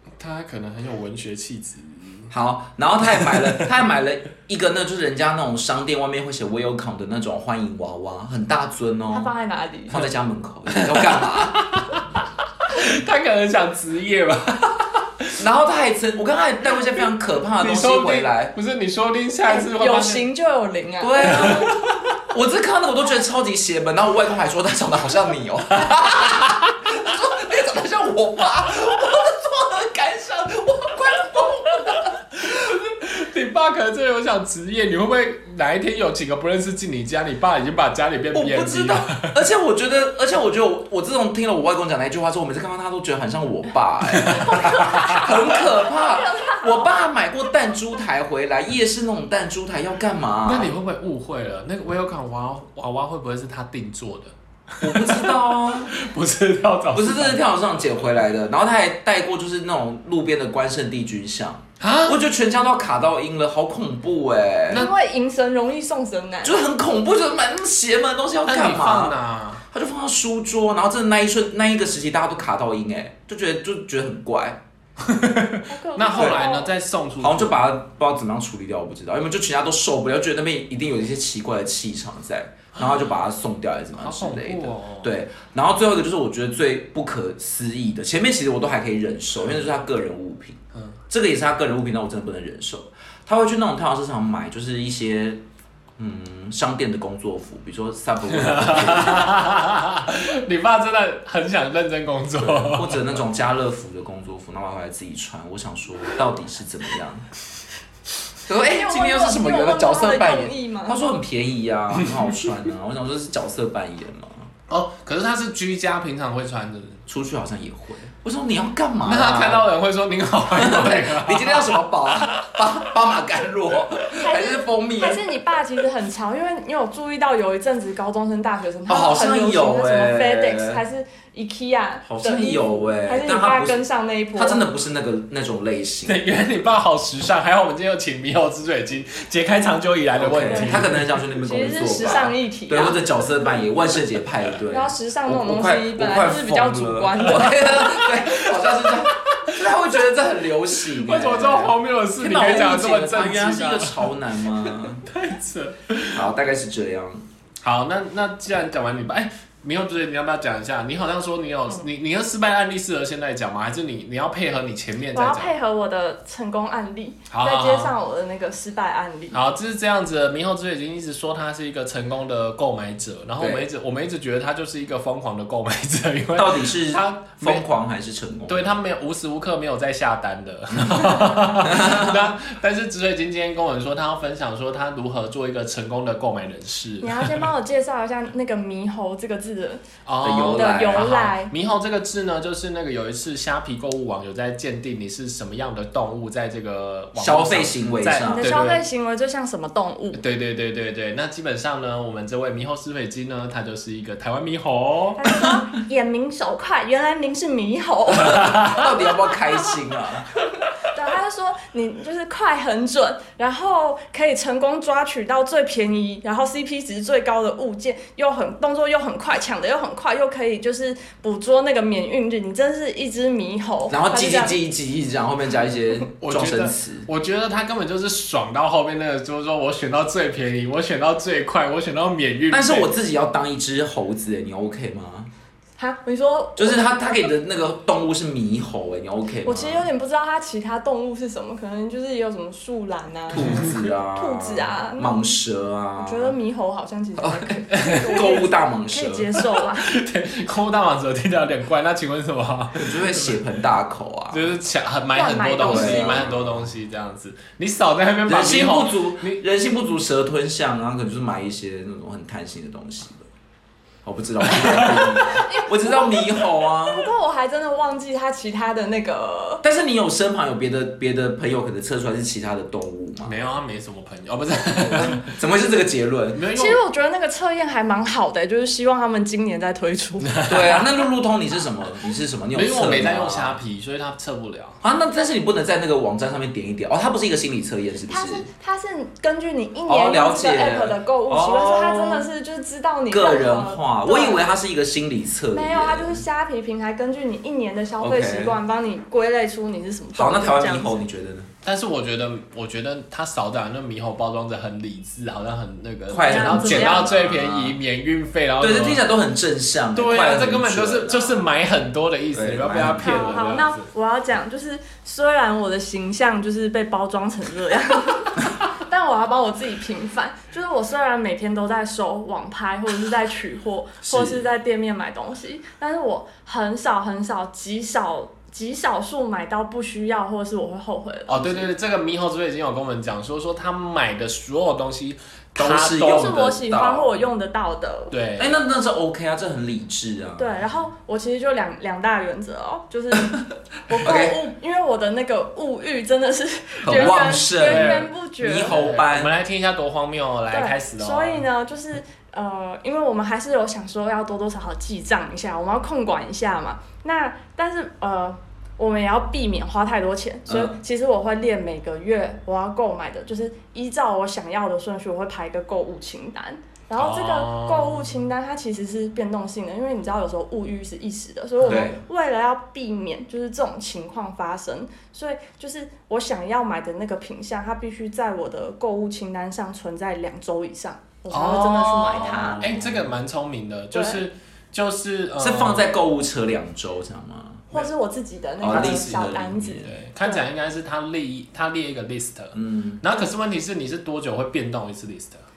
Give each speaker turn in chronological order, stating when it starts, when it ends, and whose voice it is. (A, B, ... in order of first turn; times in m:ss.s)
0:00.2-0:02.3 A
0:02.3-0:09.3 B
0:03.2-0:03.6 A
0:09.1-0:10.0 C
0:09.9-0:11.6 B
0:10.7-0:15.4 A
0:15.4-0:18.5 B
0:17.6-0:20.2 A
0:19.5-0:21.5 C
0:21.0-0:32.1 B
0:21.2-0:22.2 A
0:31.8-0:39.4 A
0:38.3-0:50.7 B
0:44.1-0:45.3 A
0:44.5-0:46.9 C
0:50.4-0:57.4 A
0:54.8-0:55.9 B
0:56.9-1:04.9 B
1:01.8-1:02.2 A
1:04.7-1:06.6 C
1:06.4-1:09.1 B
1:08.4-1:09.6 A
1:09.7-1:14.6 B
1:15.0-1:17.6 A
1:15.7-1:16.7 C
1:16.1-1:16.4 B
1:17.2-1:35.4 B
1:24.0-1:25.2 A
1:36.0-1:39.3 B
1:38.3-1:43.2 A
1:42.4-1:47.3 B
1:48.5-1:54.5 B
1:48.7-1:51.0 C
1:54.7-1:57.0 A
1:57.1-1:59.6 B
1:59.0-2:02.6 A
2:00.5-2:05.2 B
2:04.2-2:14.6 C
2:08.9-2:10.8 B
2:12.0-2:13.8 B
2:14.3-2:16.2 B
2:16.0-2:21.2 A
2:20.2-2:35.1 B
2:20.5-2:20.8 C
2:21.4-2:23.0 C
2:24.7-2:27.9 C
2:27.4-2:29.6 A
2:30.9-2:36.3 A
2:36.1-2:37.2 B
2:37.6-2:45.5 A
2:45.1-2:49.4 C
2:47.3-2:47.9 A
2:49.3-2:57.6 A
2:53.4-2:53.6 B
2:56.4-2:58.7 B
2:58.5-3:07.5 A
3:00.8-3:02.3 B
3:07.0-3:09.8 C
3:10.0-3:18.8 A
3:10.2-3:11.1 B
3:10.5-3:11.5 C
3:17.2-3:18.6 B
3:18.2-3:20.2 C
3:20.1-3:25.3 A
3:25.2-3:28.6 C
3:28.1-3:30.3 B
3:28.2-3:28.9 A
3:30.8-3:44.6 C
3:43.9-3:47.1 B
3:46.2-3:52.9 A
3:52.5-3:55.3 B
3:55.8-3:57.2 C
3:56.6-3:59.9 B
3:59.4-4:05.3 C
4:03.3-4:06.4 B
4:06.0-4:09.9 C
4:07.2-4:09.3 B
4:07.7-4:08.2 A
4:09.4-4:13.4 A
4:12.7-4:14.5 B
4:14.3-4:19.4 A
4:15.1-4:16.3 C
4:15.6-4:16.7 B
4:18.3-4:23.3 B
4:24.0-4:27.1 B
4:24.4-4:25.1 A
4:25.2-4:29.6 C
4:29.6-4:33.3 B
4:33.2-4:35.3 A
4:34.8-4:36.4 B
4:36.3-4:36.8 A
4:36.5-4:40.4 C
4:40.2-4:40.9 A
4:40.5-4:43.6 B
4:42.5-4:44.8 A
4:44.8-4:48.5 B
4:48.1-4:54.5 C
4:49.9-4:52.3 B
4:53.1-4:56.2 B
4:55.5-5:01.0 C
4:58.0-4:58.6 B
5:00.1-5:01.5 B
5:01.6-5:09.0 A
5:06.1-5:07.8 B
5:06.2-5:07.1 C
5:08.6-5:11.4 B
5:09.9-5:13.9 A
5:12.3-5:13.4 B
5:12.9-5:31.7 C
5:24.0-5:24.4 B
5:31.3-5:36.4 A
5:35.6-5:37.2 B
5:36.0-5:38.1 C
5:38.1-5:38.5 A
5:38.4-5:40.6 B
5:40.4-5:48.8 C
5:43.9-5:44.4 B
5:46.8-5:49.3 B
5:47.6-5:48.1 A
5:48.7-5:51.4 A
5:50.5-6:22.6 C
6:00.5-6:00.8 B
6:07.0-6:08.2 A
6:11.6-6:12.0 B
6:21.3-6:25.9 A
6:22.4-6:23.0 B
6:23.9-6:24.2 C
6:25.4-6:27.7 B
6:27.7-6:30.4 C
6:28.6-6:29.9 B
6:28.7-6:29.3 A
6:29.8-6:35.4 A
6:32.5-6:33.0 B